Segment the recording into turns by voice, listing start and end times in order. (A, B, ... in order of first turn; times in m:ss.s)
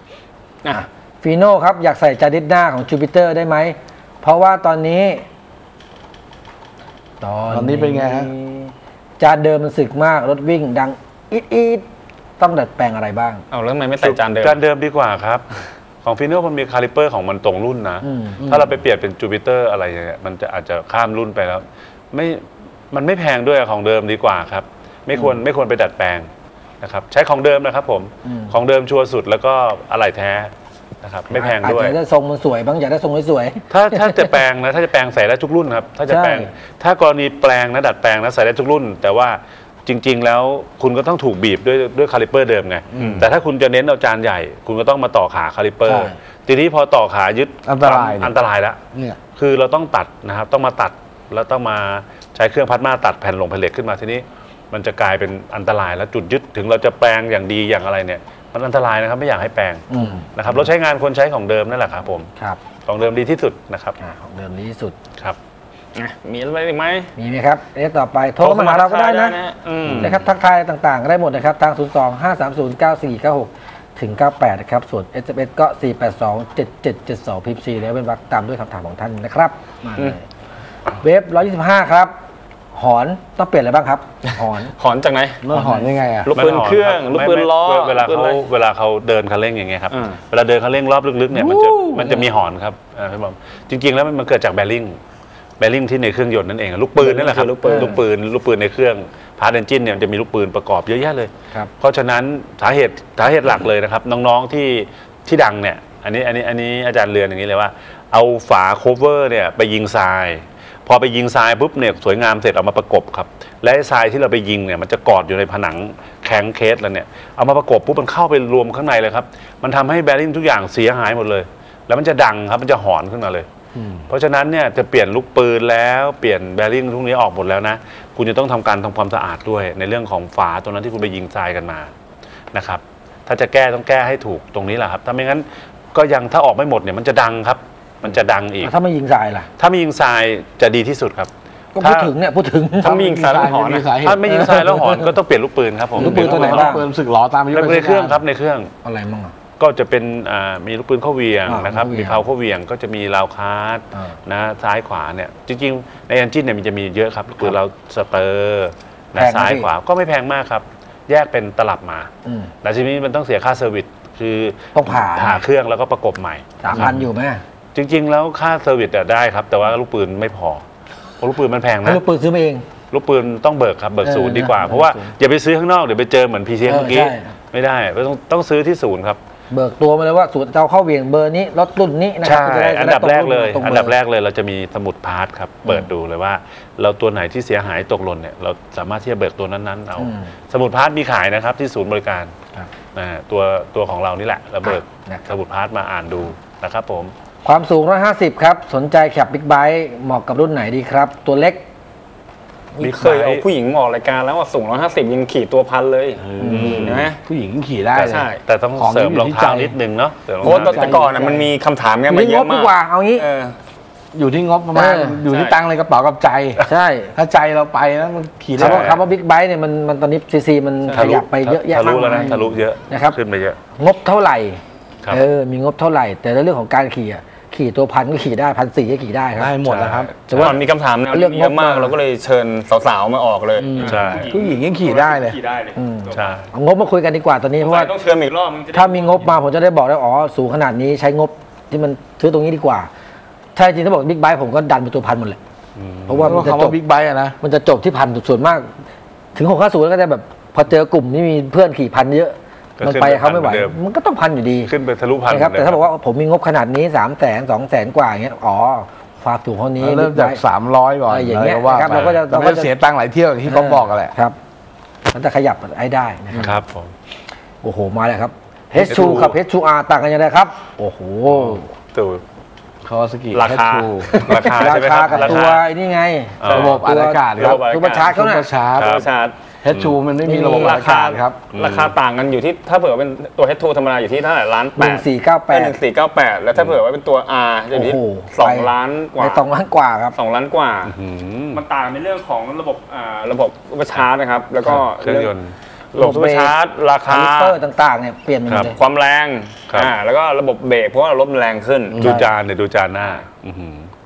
0:00.7-0:05.2 A
0:07.2-0:11.8 A
0:07.5-0:08.3 B
0:12.4-0:13.4 A
0:13.5-0:14.6 C
0:14.0-0:15.5 D
0:16.0-0:26.3 D
0:18.0-0:18.4 A
0:18.4-0:18.7 B
0:26.8-0:32.0 D
0:28.2-0:28.5 A
0:31.3-0:34.4 A
0:33.7-1:02.3 D
0:36.1-0:36.5 A
0:42.9-0:43.3 B
0:43.0-0:43.2 C
0:45.8-0:46.1 A
0:47.6-0:48.4 B
0:48.9-0:49.2 B
0:59.9-1:00.3 A
1:02.8-1:04.0 D
1:04.0-1:05.0 A
1:05.9-1:07.1 C
1:07.2-1:09.4 A
1:08.4-1:10.2 C
1:09.8-1:10.2 D
1:10.0-1:20.2 A
1:21.0-1:22.1 A
1:22.7-1:24.7 A
1:24.8-1:25.4 C
1:25.4-1:26.3 B
1:25.5-1:25.9 A
1:26.2-1:28.4 C
1:26.3-1:35.0 D
1:29.9-1:30.2 C
1:35.6-2:03.5 D
1:37.0-1:38.0 C
1:37.6-1:38.0 A
2:03.7-2:04.1 B
2:04.1-2:11.9 D
2:12.5-2:18.7 D
2:18.6-2:19.5 A
2:19.6-2:22.1 D
2:21.7-2:23.0 A
2:22.8-2:24.2 B
2:22.8-2:23.9 C
2:24.0-2:26.7 D
2:24.2-2:25.2 A
2:26.0-2:26.8 A
2:26.0-2:28.2 B
2:27.5-2:28.7 D
2:27.6-2:28.2 A
2:28.8-2:29.3 A
2:29.6-2:42.1 D
2:31.4-2:32.3 A
2:39.1-2:39.7 A
2:42.2-2:42.5 A
2:42.6-2:47.0 D
2:44.7-2:45.4 A
2:46.6-2:47.4 A
2:47.7-2:50.6 D
2:51.2-2:52.0 D
2:51.8-2:52.6 A
2:52.9-2:59.2 D
2:54.0-2:55.1 A
2:56.7-2:57.3 A
2:59.5-3:03.9 A
3:02.2-3:12.3 D
3:05.6-3:05.9 A
3:10.0-3:10.3 A
3:12.9-3:17.1 D
3:14.6-3:15.2 A
3:17.4-3:21.6 A
3:22.8-3:26.3 C
3:22.8-3:23.5 D
3:26.2-3:28.2 B
3:26.4-3:26.9 A
3:26.5-3:27.1 D
3:26.8-3:27.2 C
3:27.9-3:31.0 D
3:28.0-3:28.4 C
3:28.7-3:29.8 B
3:30.4-3:33.6 C
3:30.4-3:31.5 B
3:32.1-3:33.2 A
3:34.1-3:36.6 B
3:34.7-3:35.2 A
3:35.3-3:35.6 C
3:36.6-3:37.1 A
3:37.1-3:39.0 B
3:38.6-3:39.0 D
3:38.6-3:43.2 A
3:40.8-3:41.1 C
3:40.9-3:43.6 D
3:43.7-3:49.6 A
3:49.4-3:50.1 B
3:49.6-3:50.6 D
3:50.1-3:56.4 C
3:50.3-3:51.9 A
3:53.6-3:55.4 B
3:53.8-3:54.3 D
3:55.8-3:57.9 A
3:56.1-3:56.5 D
3:57.6-3:59.4 C
3:58.7-4:02.9 A
4:03.5-4:05.4 A
4:05.8-4:06.5 D
4:06.1-4:06.8 A
4:06.2-4:07.4 B
4:07.4-4:08.7 A
4:09.3-4:14.7 A
4:12.8-4:13.8 D
4:14.6-4:15.8 D
4:15.3-4:20.4 A
4:19.8-4:24.1 B
4:21.1-4:22.7 A
4:21.9-4:22.2 D
4:23.5-4:24.4 A
4:25.1-4:26.6 A
4:26.3-4:26.9 D
4:27.6-4:31.7 A
4:28.8-4:29.4 D
4:31.3-4:32.2 D
4:32.8-4:34.3 B
4:33.3-4:35.4 C
4:34.2-4:35.6 D
4:34.5-4:38.5 A
4:36.4-4:36.8 D
4:36.5-4:39.0 B
4:37.4-4:38.2 C
4:38.8-4:39.0 D
4:38.8-4:39.4 C
4:39.6-4:41.4 B
4:40.2-4:40.8 A
4:40.5-4:49.4 C
4:41.5-4:41.9 D
4:44.8-4:45.8 A
4:46.5-4:46.8 D
4:47.7-4:50.2 A
4:50.1-4:50.9 C
4:50.8-4:51.6 D
4:51.5-4:55.3 C
4:54.6-4:55.6 D
4:55.9-4:57.6 C
4:56.0-4:56.5 A
4:57.0-4:58.8 A
4:58.5-4:58.7 D
4:58.7-5:02.1 C
5:01.9-5:02.2 B
5:02.0-5:03.9 D
5:02.0-5:02.3 A